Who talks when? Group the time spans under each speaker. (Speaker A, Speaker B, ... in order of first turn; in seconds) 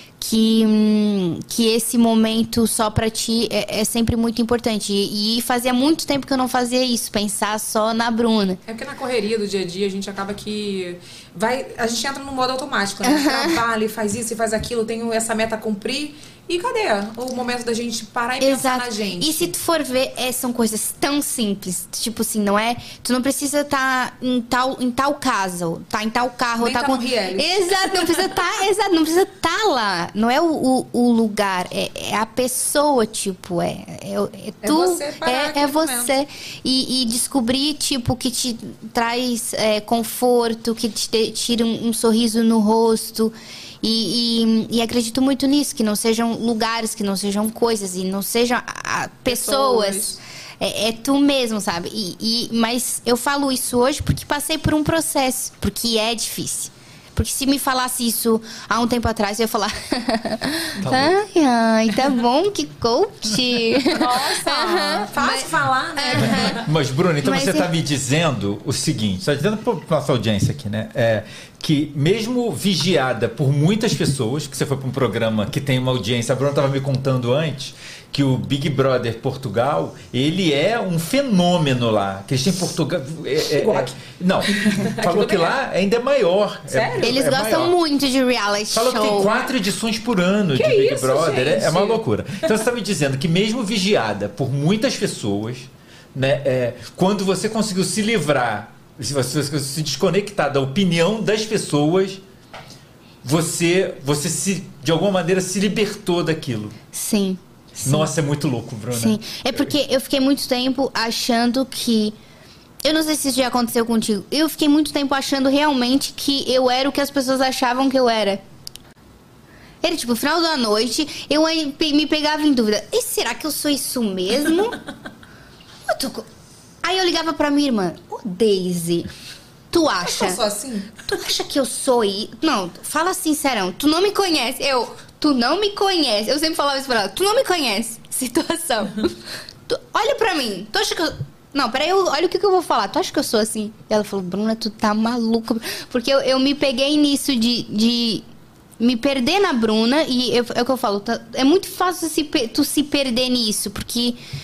Speaker A: 0.2-8.6, 13.1-13.6, 18.4-66.6, 67.2-67.7, 87.0-89.4, 106.9-108.1, 108.9-112.2, 112.8-118.4, 119.8-124.8, 125.9-126.3, 126.8-129.1, 129.7-130.4, 131.1-139.2, 139.7-148.3, 148.8-154.2
Speaker B: 8.7-19.5, 26.6-28.2, 34.6-36.1, 49.3-50.2, 63.9-66.6, 83.6-84.0, 84.5-85.6, 86.7-87.1, 90.5-92.0, 130.0-130.9
Speaker C: 60.8-61.1, 66.2-87.7, 88.7-102.2, 103.2-106.8, 107.8-109.2